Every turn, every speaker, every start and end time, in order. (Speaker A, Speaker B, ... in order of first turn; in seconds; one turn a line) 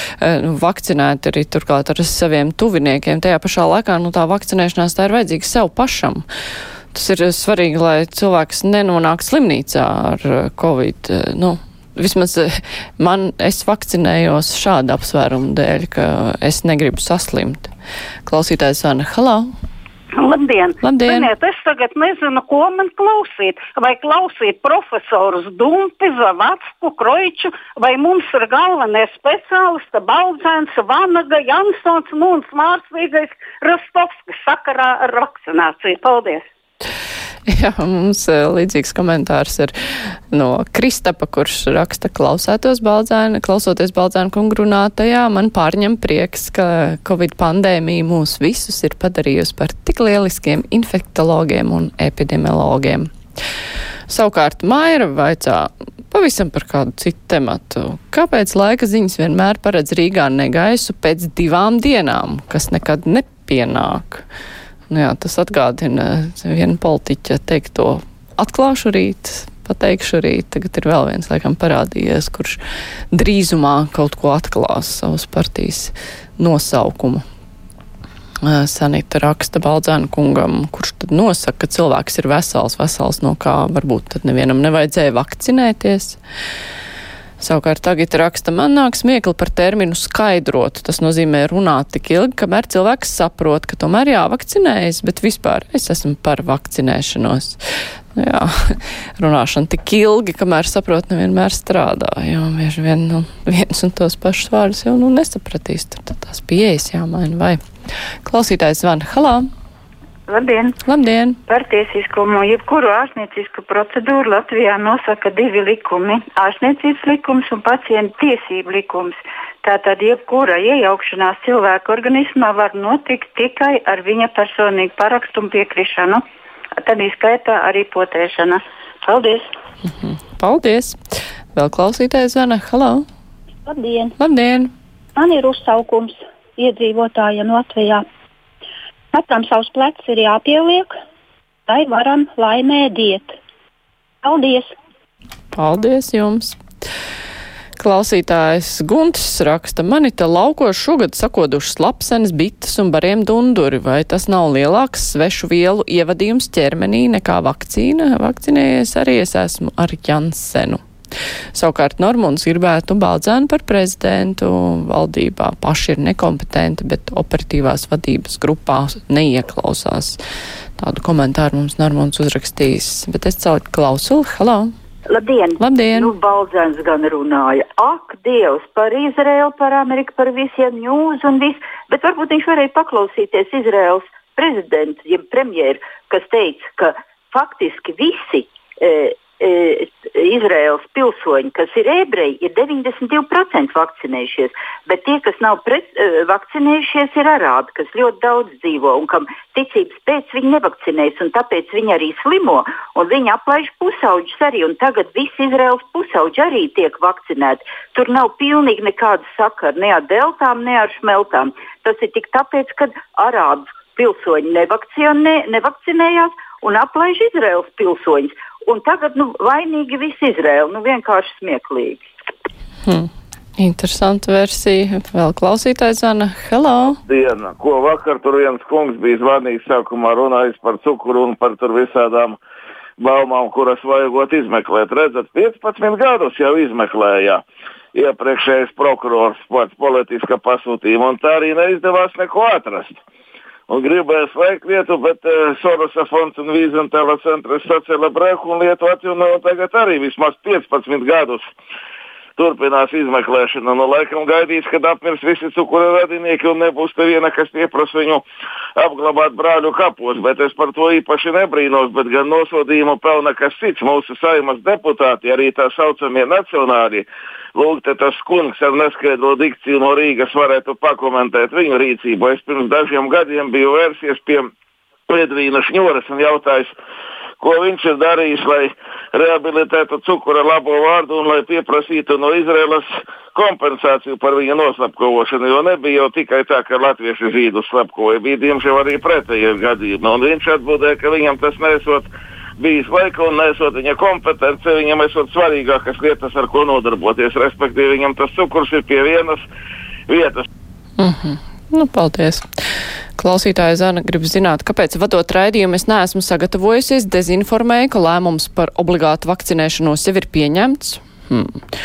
Speaker A: 0.2-6.2
Speaker A: 6.9-17.7
Speaker A: 18.2-19.5
Speaker B: 20.2-36.4
Speaker A: 20.8-21.3
Speaker C: 21.7-23.8
Speaker C: 35.5-36.0
Speaker A: 37.5-39.7
Speaker A: 40.3-53.1
Speaker A: 54.1-64.2
Speaker A: 64.9-72.6
Speaker A: 73.1-77.2
Speaker A: 78.4-86.2
Speaker A: 87.4-97.6
Speaker A: 98.2-107.6
Speaker A: 108.2-109.4
Speaker D: 110.3-110.7
Speaker A: 110.8-111.4
Speaker D: 111.5-126.2
Speaker D: 126.8-129.2
Speaker A: 129.9-131.0
Speaker A: 131.6-133.1
Speaker C: 133.7-134.1
Speaker A: 134.2-134.7
Speaker C: 135.2-138.1
Speaker C: 139.1-140.9
Speaker C: 141.7-143.4
Speaker C: 144.2-144.8
Speaker A: 145.5-146.6
Speaker A: 147.8-160.8
Speaker A: 161.6-170.2
Speaker A: 170.8-174.7
Speaker E: 175.1-222.1
Speaker A: 175.6-176.1
Speaker A: 222.9-227.0
Speaker F: 227.1-232.4
Speaker F: 233.0-237.4
Speaker F: 237.9-243.0
Speaker F: 243.7-251.5
Speaker F: 252.4-258.2
Speaker F: 258.8-274.5
Speaker F: 275.1-276.7
Speaker F: 277.4-299.4
Speaker F: 300.1-300.4
Speaker A: 301.0-302.4
Speaker A: 303.2-311.6